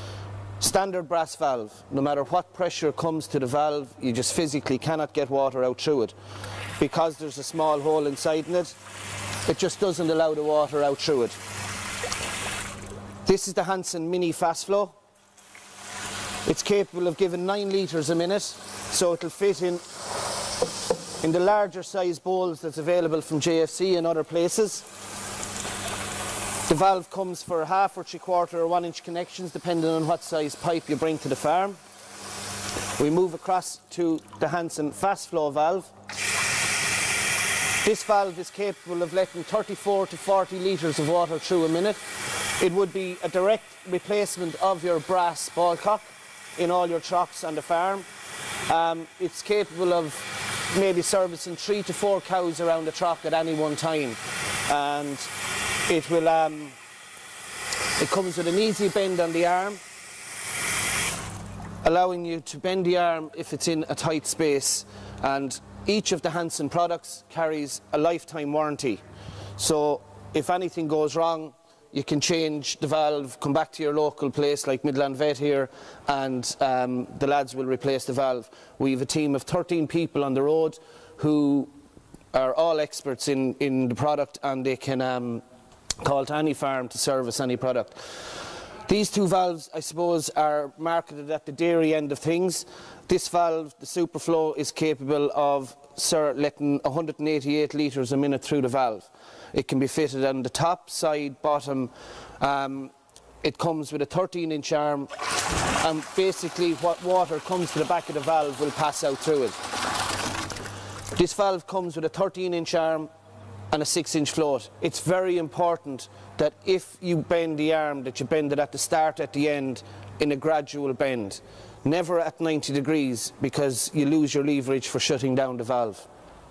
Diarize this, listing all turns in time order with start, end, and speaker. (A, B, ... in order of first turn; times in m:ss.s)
0:00.6-0:06.1 A
0:06.8-0:08.8 A
0:09.4-0:11.4 A
0:13.2-0:14.9 A
0:16.4-0:19.8 A
0:21.2-0:24.9 A
0:26.6-0:31.8 A
0:33.0-0:35.9 A
0:37.8-0:48.1 A
0:48.6-0:55.3 A
0:55.8-0:56.8 A
0:58.0-0:59.8 A
1:01.8-1:09.0 A
1:09.6-1:21.7 A
1:22.3-1:25.4 A
1:26.0-1:45.1 A
1:45.8-1:49.6 A
1:51.1-1:53.1 A
1:53.7-2:06.1 A